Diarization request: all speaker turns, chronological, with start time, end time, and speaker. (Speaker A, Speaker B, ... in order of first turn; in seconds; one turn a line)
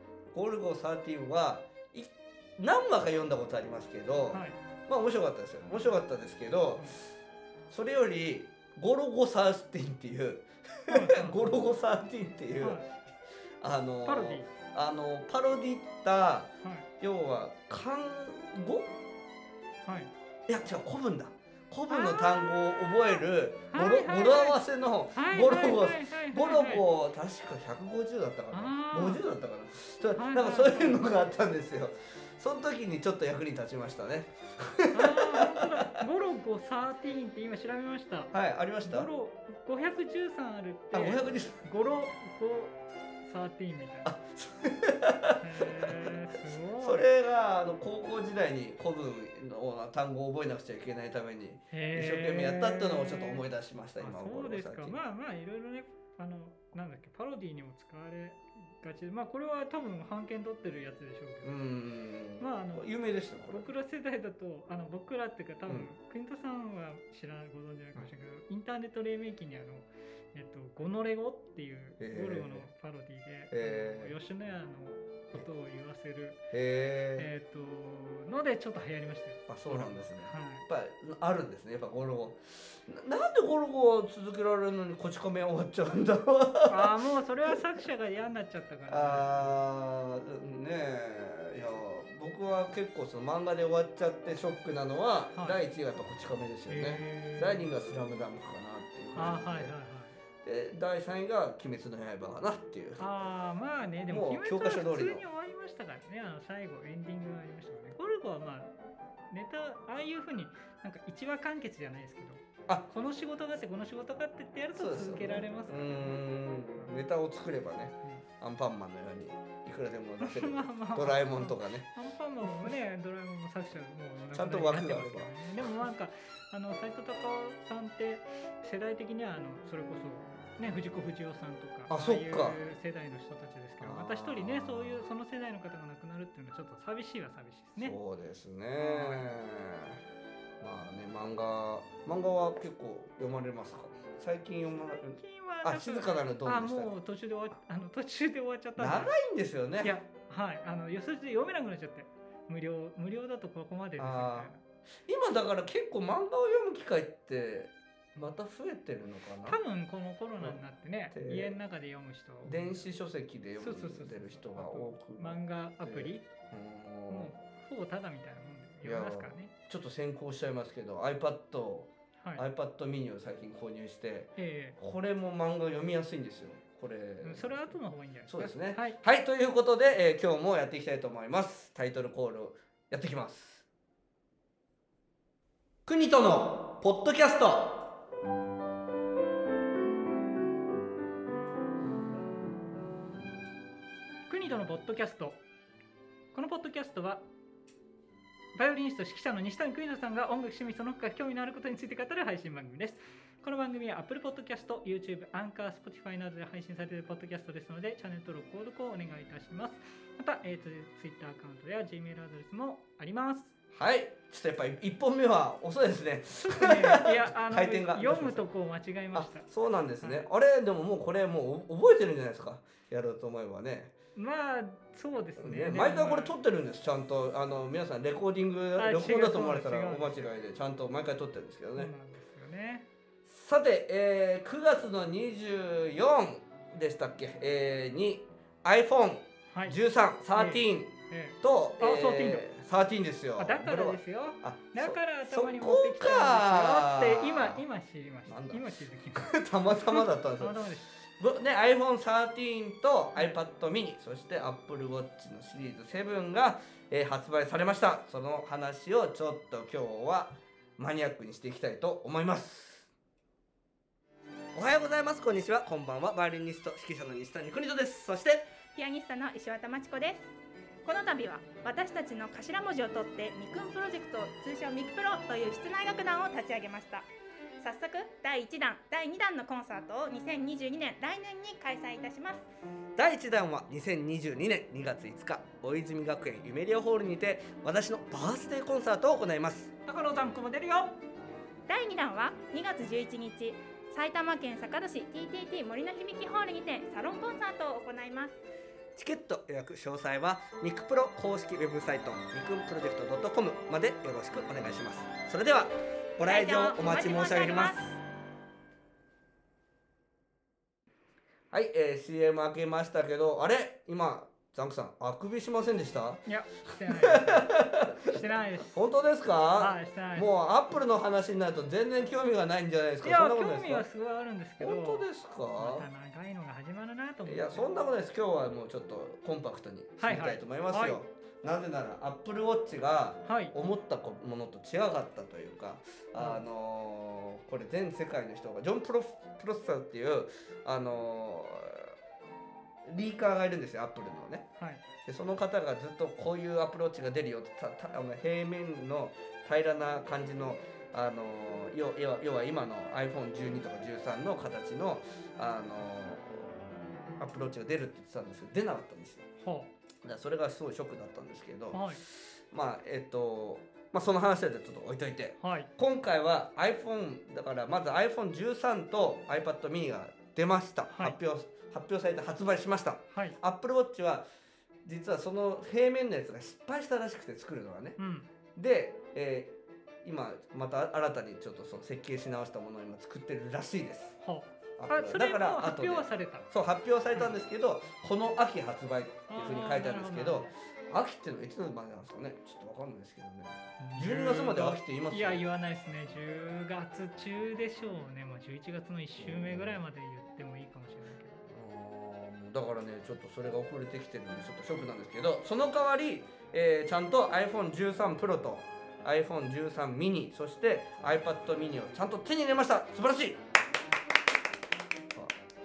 Speaker A: 0.3-7.1
Speaker B: 4.3-4.6
Speaker B: 5.7-6.0
Speaker A: 7.7-12.8
Speaker B: 10.9-11.5
Speaker B: 12.6-12.9
Speaker A: 13.6-18.9
Speaker B: 14.1-14.5
Speaker B: 16.6-16.9
Speaker B: 19.9-20.1
Speaker A: 20.5-36.0
Speaker B: 21.9-24.6
Speaker B: 25.1-26.9
Speaker B: 28.5-29.2
Speaker B: 30.1-31.3
Speaker B: 34.9-38.3
Speaker A: 38.3-39.1
Speaker B: 38.8-44.1
Speaker A: 40.9-41.6
Speaker A: 44.0-46.1
Speaker B: 45.4-47.1
Speaker A: 46.8-55.0
Speaker B: 51.7-53.4
Speaker B: 54.0-61.6
Speaker A: 61.4-63.7
Speaker B: 62.4-62.9
Speaker B: 63.5-76.4
Speaker A: 72.0-72.7
Speaker A: 73.5-74.1
Speaker A: 76.5-77.3
Speaker B: 77.2-80.7
Speaker A: 79.5-87.6
Speaker B: 86.7-89.6
Speaker A: 88.9-99.7
Speaker B: 95.3-95.6
Speaker B: 96.7-97.7
Speaker B: 99.2-100.2
Speaker A: 100.4-103.0
Speaker B: 103.0-108.7
Speaker A: 104.1-105.2
Speaker B: 109.3-116.2
Speaker A: 114.8-121.9
Speaker B: 120.2-138.0
Speaker A: 124.3-125.3
Speaker A: 131.9-132.6
Speaker A: 133.8-135.1
Speaker A: 137.8-140.0
Speaker B: 138.8-139.3
Speaker A: 140.6-146.9
Speaker B: 145.1-149.2
Speaker A: 148.8-149.9
Speaker B: 149.8-154.6
Speaker A: 154.0-154.5
Speaker A: 155.1-159.6
Speaker B: 159.4-162.8
Speaker A: 161.1-161.6
Speaker A: 162.4-167.3
Speaker B: 163.6-166.3
Speaker B: 167.1-169.5
Speaker A: 168.8-183.7
Speaker B: 172.2-172.4
Speaker B: 174.4-174.8
Speaker B: 177.2-179.0
Speaker A: 185.9-187.9
Speaker B: 194.3-195.4
Speaker B: 196.3-197.2
Speaker B: 198.6-213.5
Speaker A: 213.7-218.4
Speaker B: 216.4-219.5
Speaker A: 219.1-223.9
Speaker B: 220.0-220.3
Speaker B: 224.2-226.3
Speaker A: 225.4-231.9
Speaker B: 228.8-230.2
Speaker B: 231.8-232.9
Speaker A: 233.3-247.6
Speaker B: 239.5-239.8
Speaker B: 240.3-242.5
Speaker B: 243.4-250.9
Speaker A: 248.3-262.9
Speaker A: 264.6-268.5
Speaker C: 268.8-270.3
Speaker C: 270.8-277.1
Speaker C: 277.6-282.4
Speaker A: 283.0-289.7
Speaker B: 289.9-291.0
Speaker C: 291.7-298.4
Speaker A: 299.0-308.0
Speaker C: 306.2-307.9
Speaker A: 311.5-316.2
Speaker B: 316.3-318.8
Speaker A: 316.8-318.1
Speaker A: 318.7-323.9
Speaker B: 319.6-320.3
Speaker B: 323.0-325.1
Speaker A: 324.6-325.9
Speaker B: 325.6-327.7
Speaker A: 327.3-342.0
Speaker B: 330.0-331.0
Speaker B: 333.3-333.6
Speaker B: 336.2-336.4
Speaker A: 342.9-344.5
Speaker B: 344.6-344.8
Speaker A: 345.1-356.6
Speaker A: 357.2-359.2
Speaker B: 359.4-359.7
Speaker A: 360.0-374.3
Speaker B: 361.7-362.0
Speaker B: 365.4-365.7
Speaker B: 370.9-371.2
Speaker B: 373.1-373.4
Speaker A: 374.9-378.0
Speaker B: 378.0-378.3
Speaker A: 378.6-384.2
Speaker B: 384.2-386.5
Speaker A: 384.8-395.4
Speaker B: 389.3-390.5
Speaker B: 393.8-401.4
Speaker A: 399.2-399.8
Speaker A: 401.5-413.4